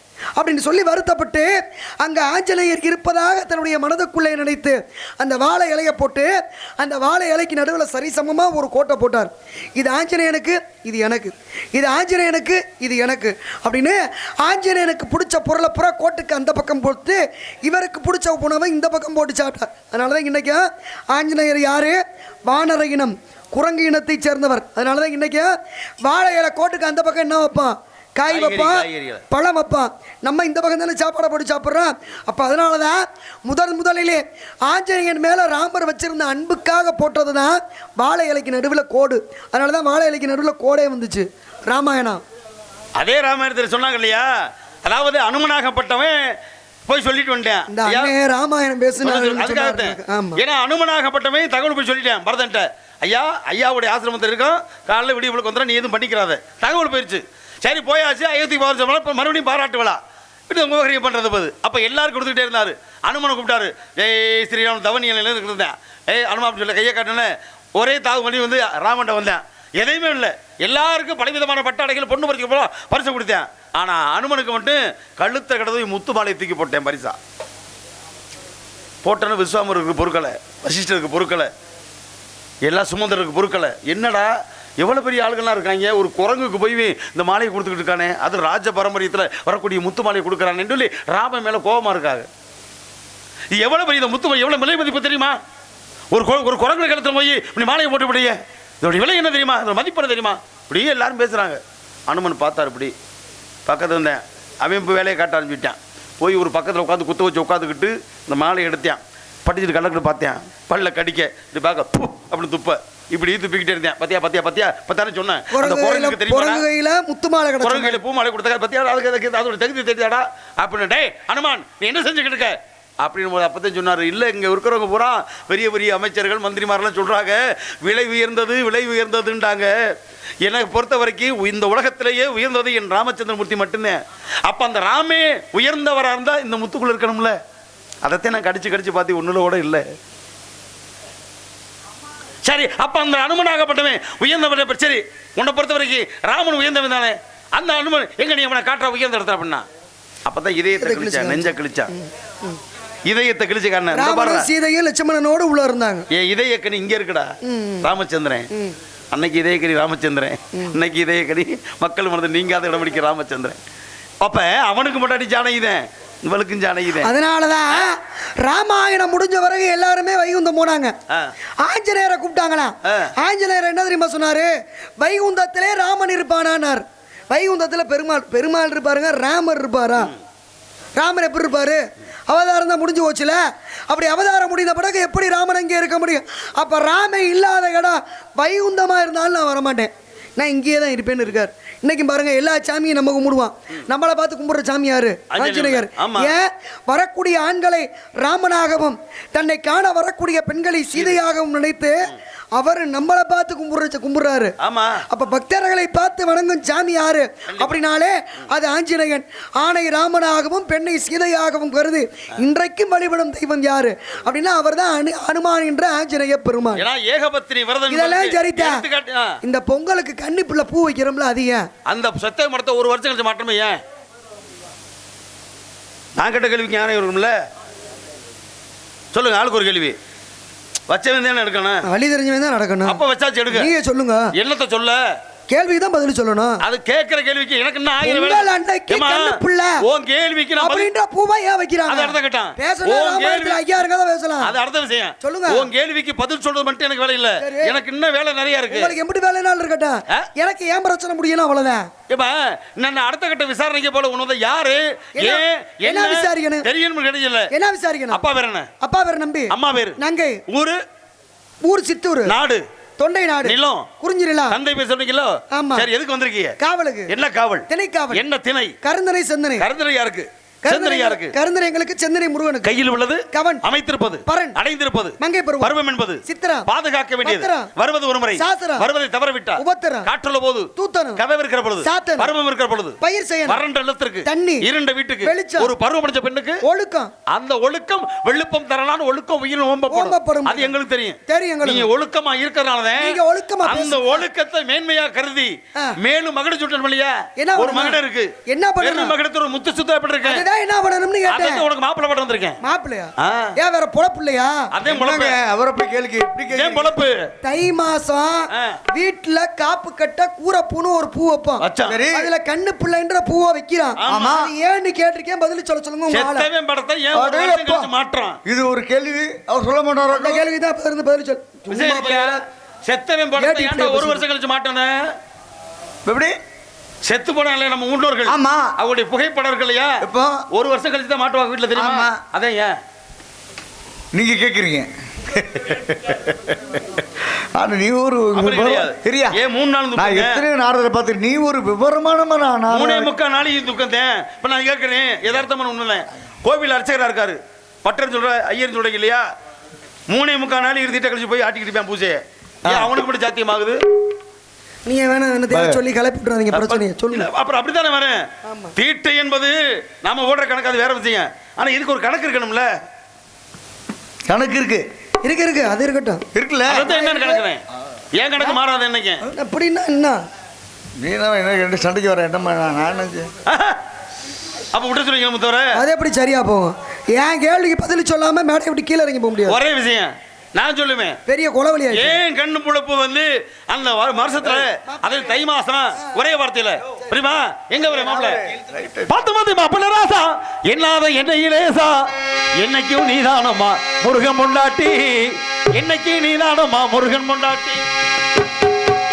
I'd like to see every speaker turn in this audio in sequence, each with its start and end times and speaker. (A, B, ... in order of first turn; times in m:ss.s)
0:00.4-0:42.2 A
0:28.3-0:29.2 B
0:43.0-0:44.3 B
0:44.8-0:46.4 B
0:46.9-0:48.1 B
0:47.7-0:50.4 A
0:49.0-1:17.2 B
1:19.0-1:21.5 B
1:22.6-1:32.3 B
1:33.5-1:35.4 B
1:36.1-1:42.9 B
1:43.6-1:56.6 B
1:55.5-1:58.0 A
1:57.6-2:17.4 B
2:18.0-2:19.8 B
2:22.4-2:29.6 B
2:30.2-2:31.9 B
2:30.8-2:32.6 A
2:33.1-2:34.5 B
2:33.9-2:36.1 A
2:36.1-2:38.5 B
2:37.4-2:37.9 A
2:39.1-2:43.6 B
2:44.2-2:47.1 B
2:47.0-2:50.9 A
2:51.6-3:00.1 A
2:52.8-2:53.1 B
3:01.0-3:03.4 A
3:03.9-3:24.5 A
3:15.3-3:16.3 B
3:20.9-3:21.2 B
3:24.6-3:25.0 B
3:25.1-3:36.8 A
3:27.5-3:27.8 B
3:36.8-3:39.4 B
3:37.9-3:38.8 A
3:39.4-3:41.7 A
3:41.8-3:43.8 B
3:46.2-3:47.4 B
3:49.1-3:49.9 B
3:50.9-3:51.8 B
3:51.8-3:54.3 A
3:52.8-3:53.7 B
3:54.3-3:55.1 B
3:55.5-3:56.6 A
3:56.6-4:00.9 B
3:58.0-3:59.8 A
4:00.6-4:04.6 A
4:01.9-4:03.6 B
4:04.4-4:08.9 B
4:05.2-4:05.7 A
4:07.4-4:07.7 A
4:08.7-4:11.9 A
4:12.1-4:17.5 B
4:15.2-4:16.7 A
4:17.5-4:18.2 A
4:18.1-4:18.7 B
4:18.8-4:20.4 A
4:19.5-4:20.8 B
4:21.6-4:22.3 A
4:22.2-4:22.6 B
4:23.0-4:24.6 A
4:23.4-4:23.9 B
4:24.5-4:26.6 B
4:25.5-4:25.9 A
4:26.6-4:27.1 A
4:27.1-4:28.8 B
4:27.7-4:28.2 A
4:28.8-4:29.6 A
4:29.6-4:31.3 B
4:30.6-4:32.8 A
4:32.6-4:46.6 B
4:33.3-4:33.6 A
4:34.2-4:34.6 A
4:35.2-4:36.7 A
4:37.2-4:37.7 A
4:38.4-4:38.9 A
4:39.6-4:40.1 A
4:40.8-4:41.2 A
4:41.8-4:42.3 A
4:43.0-4:43.6 A
4:44.2-4:44.7 A
4:45.2-4:45.7 A
4:46.6-4:47.1 A
4:47.3-5:00.4 B
4:49.9-4:50.7 A
4:51.3-4:51.9 A
4:53.0-4:54.2 A
4:57.4-4:59.1 A
5:00.2-5:01.6 A
5:01.3-5:02.6 B
5:02.6-5:04.7 A
5:03.2-5:03.5 B
5:04.7-5:05.4 B
5:04.8-5:06.9 C
5:06.5-5:07.2 B
5:07.4-5:16.5 A
5:08.5-5:08.8 B
5:11.6-5:12.0 B
5:11.8-5:12.3 C
5:14.0-5:14.3 B
5:14.1-5:14.5 C
5:16.1-5:18.4 B
5:17.1-5:17.9 C
5:18.4-5:20.4 C
5:20.1-5:22.4 A
5:21.7-5:25.1 B
5:23.4-5:24.2 A
5:26.0-5:26.4 C
5:27.0-5:32.8 B
5:28.3-5:28.7 C
5:30.0-5:30.4 C
5:31.7-5:32.2 C
5:34.1-5:39.4 C
5:38.3-5:40.4 B
5:40.0-5:43.1 C
5:42.7-5:49.2 B
5:50.1-5:53.8 B
5:52.6-5:53.0 C
5:54.8-5:57.3 A
5:55.5-5:55.8 C
5:56.5-6:02.7 B
5:58.4-5:58.7 A
6:04.3-6:04.8 C
6:05.2-6:06.2 A
6:06.3-6:06.9 C
6:06.7-6:07.6 B
6:06.8-6:07.4 A
6:08.2-6:09.2 B
6:09.2-6:10.2 A
6:11.0-6:13.3 C
6:13.5-6:13.8 B
6:14.7-6:15.8 B
6:15.7-6:19.6 A
6:19.5-6:21.2 B
6:21.3-6:22.2 A
6:21.9-6:28.4 B
6:24.8-6:25.4 A
6:27.9-6:29.1 C
6:29.1-6:37.8 B